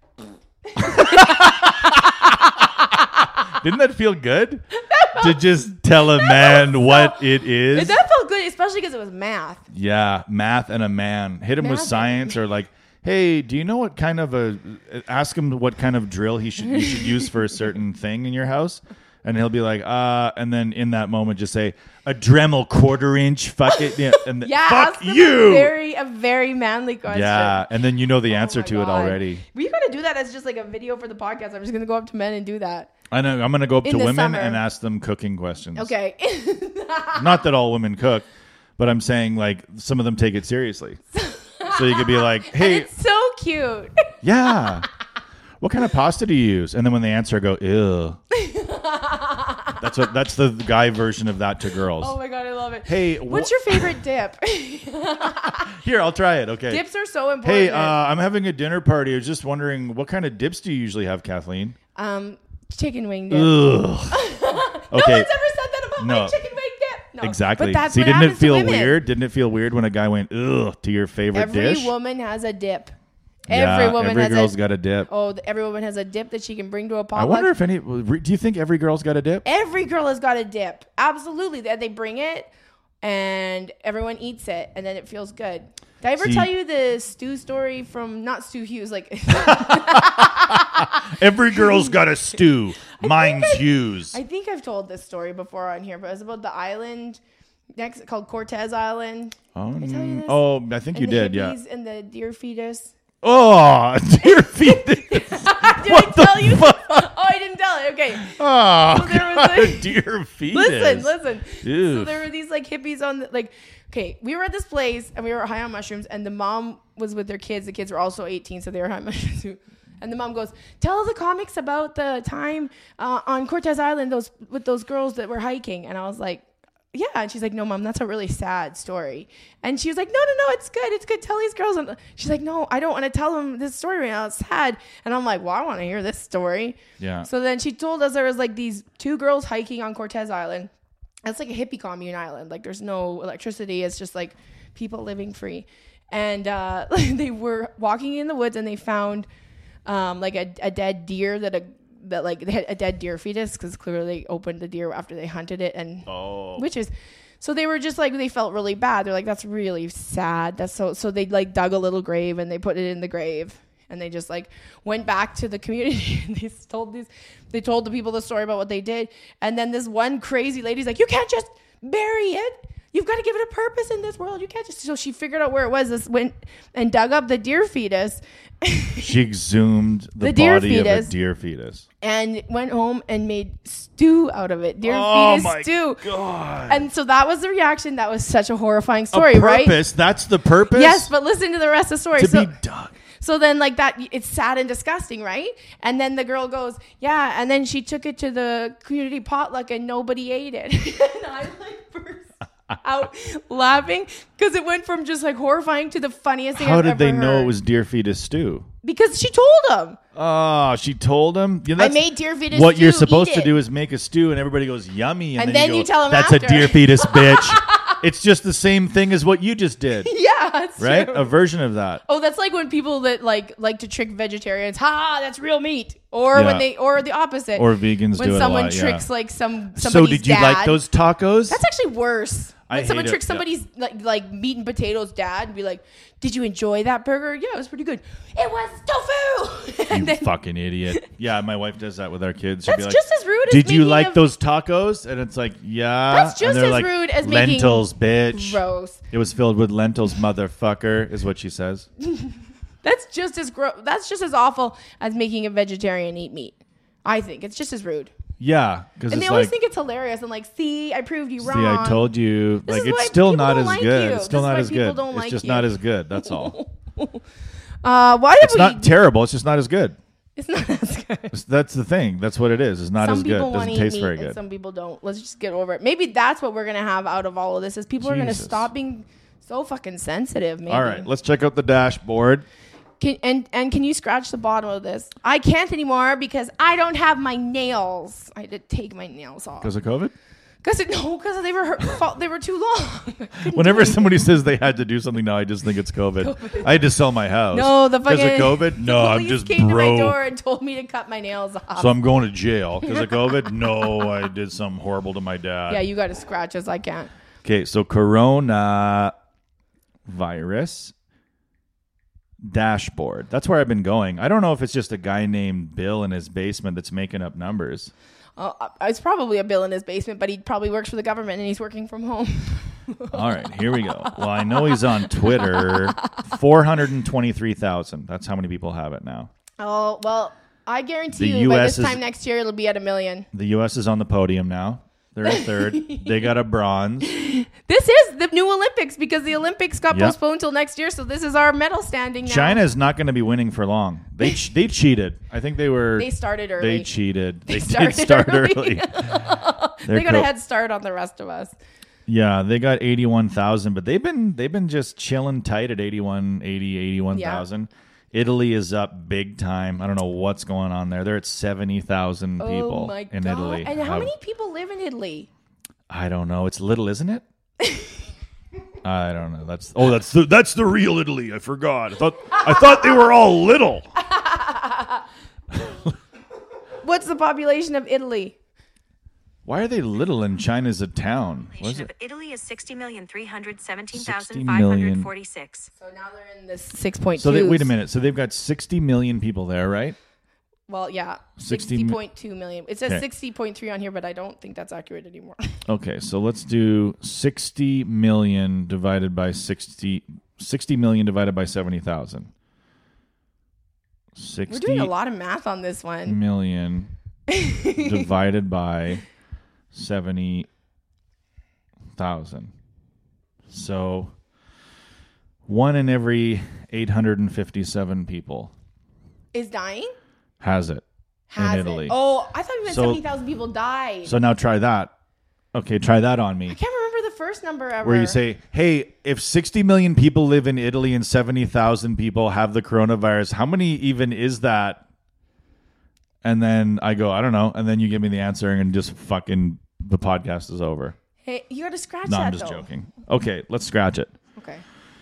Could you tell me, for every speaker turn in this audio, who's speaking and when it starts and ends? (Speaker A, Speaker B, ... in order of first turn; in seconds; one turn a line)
Speaker A: 0.6-3.0
Speaker B: 0.8-8.0
Speaker A: 4.7-5.4
Speaker A: 6.1-9.6
Speaker B: 9.7-25.7
Speaker A: 11.6-12.4
Speaker A: 16.7-17.2
Speaker A: 23.7-27.7
Speaker B: 27.1-29.4
Speaker A: 28.3-32.9
Speaker B: 33.1-35.9
Speaker A: 33.8-34.6
Speaker A: 35.7-37.4
Speaker B: 37.1-38.2
Speaker B: 38.8-41.0
Speaker A: 41.1-44.0
Speaker B: 41.6-42.9
Speaker B: 44.2-44.9
Speaker B: 45.6-48.2
Speaker A: 48.3-49.9
Speaker B: 49.8-52.1
Speaker A: 52.0-55.7
Speaker B: 52.9-54.0
Speaker B: 55.5-56.8
Speaker A: 56.7-58.0
Speaker B: 57.4-61.8
Speaker A: 61.9-69.0
Speaker B: 63.3-64.2
Speaker B: 64.9-65.3
Speaker B: 66.0-66.3
Speaker B: 67.2-71.9
Speaker A: 71.3-72.9
Speaker A: 73.5-74.5
Speaker B: 73.5-75.1
Speaker A: 75.1-77.5
Speaker B: 77.1-79.4
Speaker A: 79.4-82.5
Speaker A: 83.0-92.0
Speaker B: 86.2-86.5
Speaker B: 89.3-94.2
Speaker A: 92.9-97.2
Speaker A: 97.8-102.9
Speaker B: 99.5-101.5
Speaker B: 103.2-107.1
Speaker A: 104.2-110.0
Speaker B: 108.2-112.2
Speaker A: 110.5-140.7
Speaker B: 137.0-137.3
Speaker A: 141.2-149.3
Speaker A: 149.8-179.2
Speaker B: 156.1-156.6
Speaker B: 179.0-181.8
Speaker A: 180.2-181.1
Speaker A: 182.0-186.1
Speaker B: 184.8-186.9
Speaker A: 186.7-189.8
Speaker B: 189.1-191.1
Speaker A: 190.7-192.5
Speaker B: 192.2-192.9
Speaker A: 193.2-202.3
Speaker A: 202.8-207.5
Speaker B: 206.5-208.7
Speaker A: 208.8-210.0
Speaker B: 210.1-220.1
Speaker A: 211.8-213.5
Speaker A: 215.4-218.0
Speaker A: 220.0-221.3
Speaker B: 220.8-222.0
Speaker A: 222.1-230.8
Speaker B: 226.3-226.7
Speaker B: 227.5-229.0
Speaker B: 229.8-231.6
Speaker A: 231.5-240.3
Speaker B: 232.7-233.4
Speaker B: 239.9-251.9
Speaker A: 242.7-244.2
Speaker A: 246.1-249.0
Speaker A: 252.0-258.1
Speaker B: 258.4-259.5
Speaker A: 259.1-262.1
Speaker B: 261.4-266.6
Speaker A: 262.6-267.2
Speaker A: 267.8-268.9
Speaker B: 268.4-269.9
Speaker A: 270.4-271.3
Speaker B: 271.3-274.4
Speaker A: 273.0-281.1
Speaker B: 278.0-278.7
Speaker B: 280.7-282.4
Speaker A: 283.0-289.7
Speaker B: 289.6-290.1
Speaker A: 290.6-294.2
Speaker B: 293.5-300.2
Speaker A: 296.2-296.8
Speaker A: 297.5-301.9
Speaker B: 301.8-305.8
Speaker A: 302.8-304.2
Speaker A: 305.7-307.1
Speaker B: 307.4-309.1
Speaker B: 310.1-310.9
Speaker B: 312.4-317.9
Speaker A: 318.4-326.1
Speaker B: 323.1-329.3
Speaker A: 329.6-333.3
Speaker B: 331.1-332.0
Speaker B: 333.3-337.1
Speaker A: 335.2-336.3
Speaker A: 337.0-342.6
Speaker B: 339.9-340.1
Speaker B: 342.2-350.3
Speaker A: 345.9-346.9
Speaker A: 347.5-351.5
Speaker B: 352.1-364.1
Speaker A: 357.1-357.4
Speaker A: 362.4-365.3
Speaker B: 365.9-367.2
Speaker A: 367.6-367.9
Speaker B: 368.8-373.9
Speaker A: 372.5-372.8
Speaker A: 374.0-375.1
Speaker B: 375.5-375.9
Speaker A: 376.8-378.4
Speaker B: 379.4-381.9
Speaker C: 381.6-385.7
Speaker B: 383.9-385.1
Speaker A: 385.8-387.7
Speaker B: 387.1-389.9
Speaker A: 390.7-395.6
Speaker B: 391.4-392.0
Speaker B: 395.7-402.3
Speaker B: 404.1-404.9
Speaker A: 404.5-406.2
Speaker B: 406.1-406.9
Speaker A: 407.3-408.1
Speaker B: 407.7-409.0
Speaker B: 409.7-410.5
Speaker B: 412.0-412.5
Speaker B: 413.5-414.1
Speaker B: 415.5-418.5
Speaker A: 419.3-419.9
Speaker B: 420.4-420.8
Speaker A: 421.3-424.2
Speaker B: 421.4-421.9
Speaker B: 422.6-423.0
Speaker B: 424.0-424.9
Speaker B: 425.5-426.6
Speaker A: 426.5-428.2
Speaker B: 427.8-434.8
Speaker B: 436.2-440.9
Speaker A: 441.2-442.7
Speaker B: 442.1-444.1
Speaker A: 444.4-444.6